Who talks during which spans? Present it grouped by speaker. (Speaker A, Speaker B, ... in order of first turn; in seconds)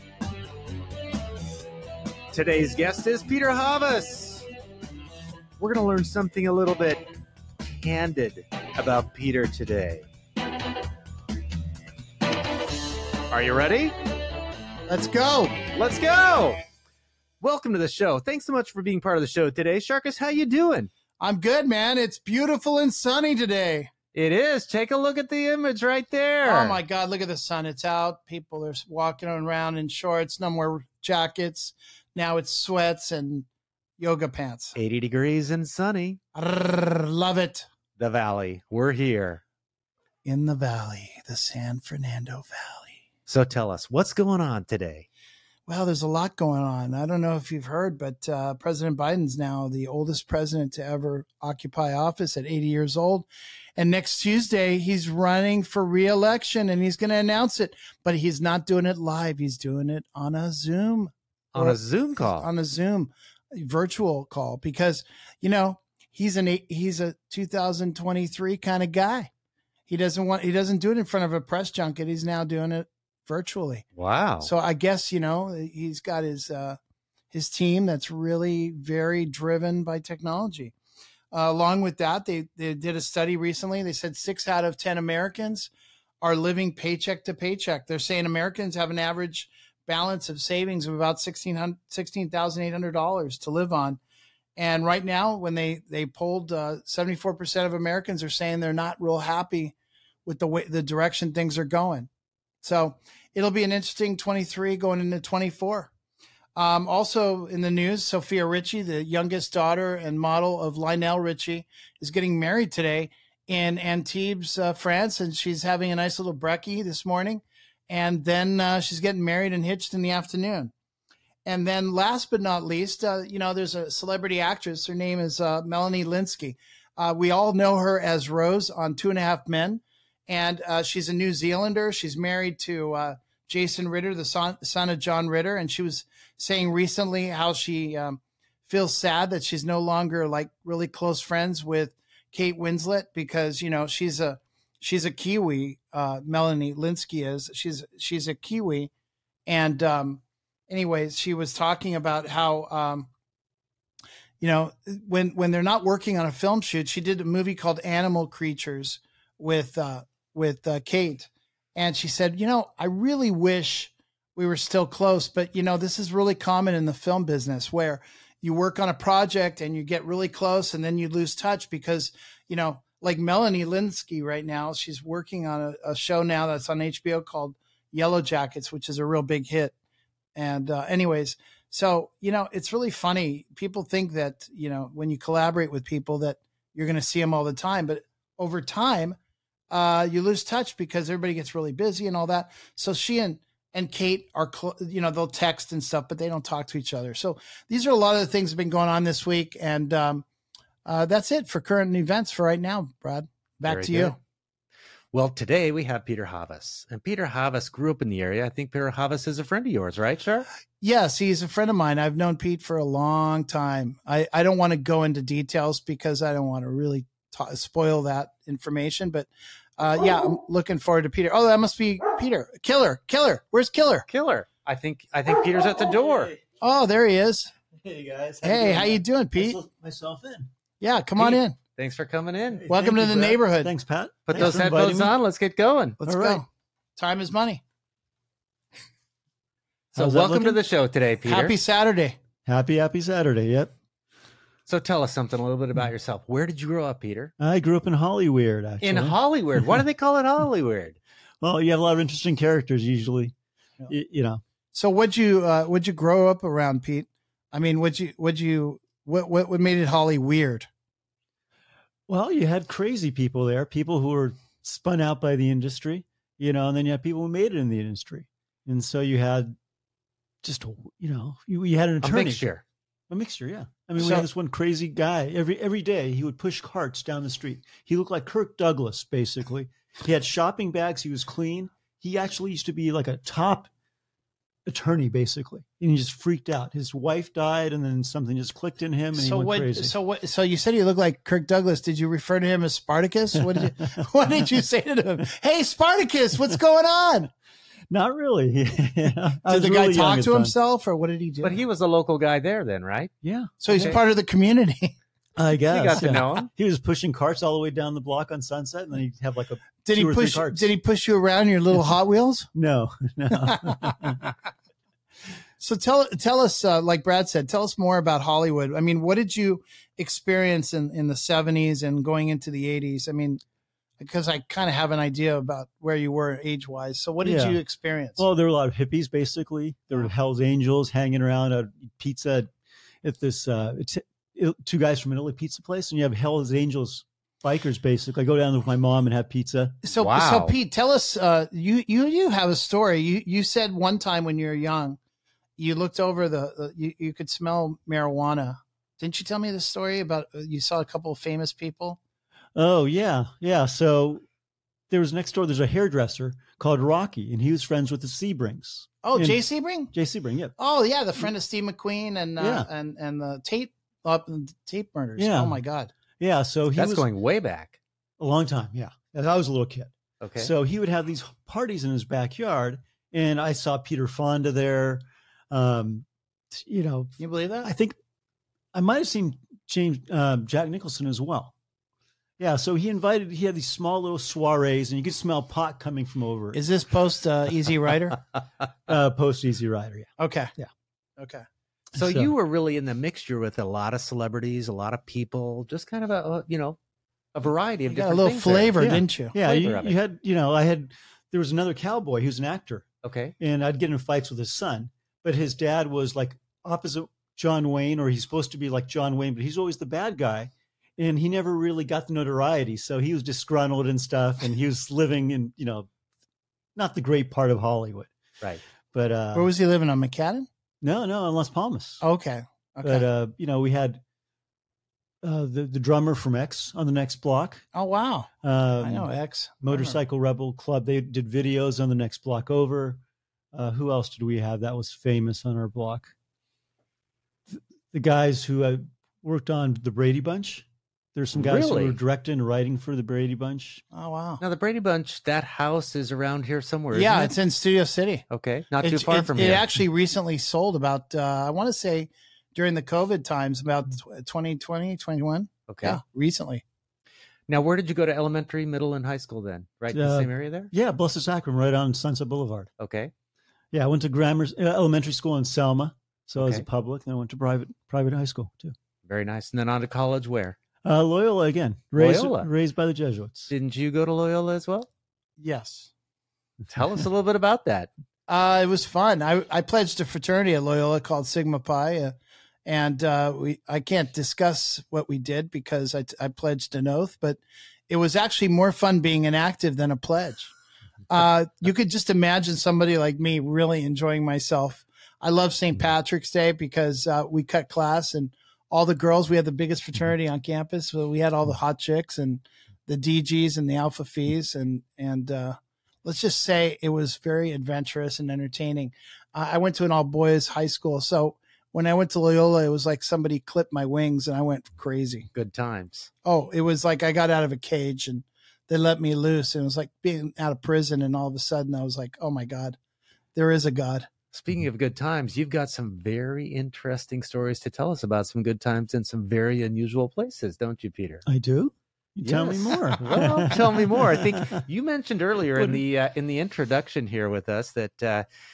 Speaker A: 2.3-4.5, 5.6-7.0, 7.7-10.1, 13.3-13.9, 15.7-16.6, 17.4-20.9, 24.1-26.8, 34.7-36.2, 38.0-39.4, 43.3-45.1, 61.5-62.5, 74.0-74.5, 203.7-204.2, 205.1-210.5, 224.1-226.3, 231.2-233.3, 234.3-236.0, 239.9-241.6, 244.7-247.3, 248.8-251.0, 272.0-272.6, 301.4-303.1, 303.7-304.0, 305.7-306.5, 339.9-340.5, 366.7-367.8, 370.2-370.5, 391.9-396.8, 397.3-398.8, 399.3-400.0, 403.0-403.3, 441.3-442.0, 444.4-447.3, 448.3-449.6, 455.7-456.0, 457.5-460.7, 462.8-463.1, 466.4-466.6, 469.0-470.6, 471.9-472.5, 473.5-474.9, 476.7-477.9, 515.3-516.1, 524.3-531.2, 532.2-538.2
Speaker B: 14.9-15.5, 21.2-23.9, 26.4-33.5, 34.0-34.8, 36.3-37.6, 40.2-43.0, 45.7-69.3, 69.9-73.8, 74.4-76.8, 77.3-80.7, 81.3-85.7, 86.2-94.0, 94.6-99.7, 100.2-102.1, 102.6-105.9, 106.5-120.7, 121.4-148.9, 149.4-153.1, 154.4-179.7, 180.3-189.2, 189.7-200.2, 200.8-204.2, 210.8-224.0, 226.6-227.5, 228.4-229.6, 230.8-231.6, 232.7-233.7, 234.3-234.7, 236.0-236.4, 237.0-237.6, 241.2-242.2, 254.7-260.7, 274.0-274.3, 289.1-297.3, 299.5-301.6, 303.6-304.9, 309.8-312.5, 313.4-314.2, 315.6-323.4, 324.0-328.2, 339.8-345.0, 345.6-352.0, 359.0-359.9, 360.6-365.9, 377.2-377.7, 386.5-388.2, 390.2-390.5, 391.2-391.4, 397.9-399.3, 419.3-420.4, 422.0-423.1, 427.7-430.0, 443.9-444.4, 446.9-448.2, 448.8-456.6, 475.4-475.9, 478.3-482.1, 482.6-490.5, 491.1-515.3, 516.2-522.8, 523.3-524.1
Speaker C: 227.7-230.5, 232.7-235.1, 236.0-236.4, 239.9-240.6, 242.4-243.7, 247.4-249.8, 251.4-253.3, 253.9-254.4, 262.1-269.5, 270.4-272.4, 273.1-283.7, 284.6-289.9, 297.9-300.5, 303.2-303.9, 305.4-310.7, 312.5-314.2, 327.2-327.6, 328.2-332.5, 333.0-339.8, 352.5-354.2, 354.9-360.5, 362.4-362.7, 365.2-365.6, 366.2-367.1, 368.2-377.9, 378.7-381.5, 382.4-386.6, 388.9-390.7, 391.9-392.3, 398.8-402.9, 403.4-415.9, 416.8-418.1, 418.9-419.5, 420.8-422.0, 422.8-424.0, 425.2-427.6, 428.4-429.1, 429.6-433.0, 433.5-436.1, 437.5-443.8, 459.9-462.7, 463.7-468.7, 470.8-473.5, 531.2-534.6, 535.5-535.8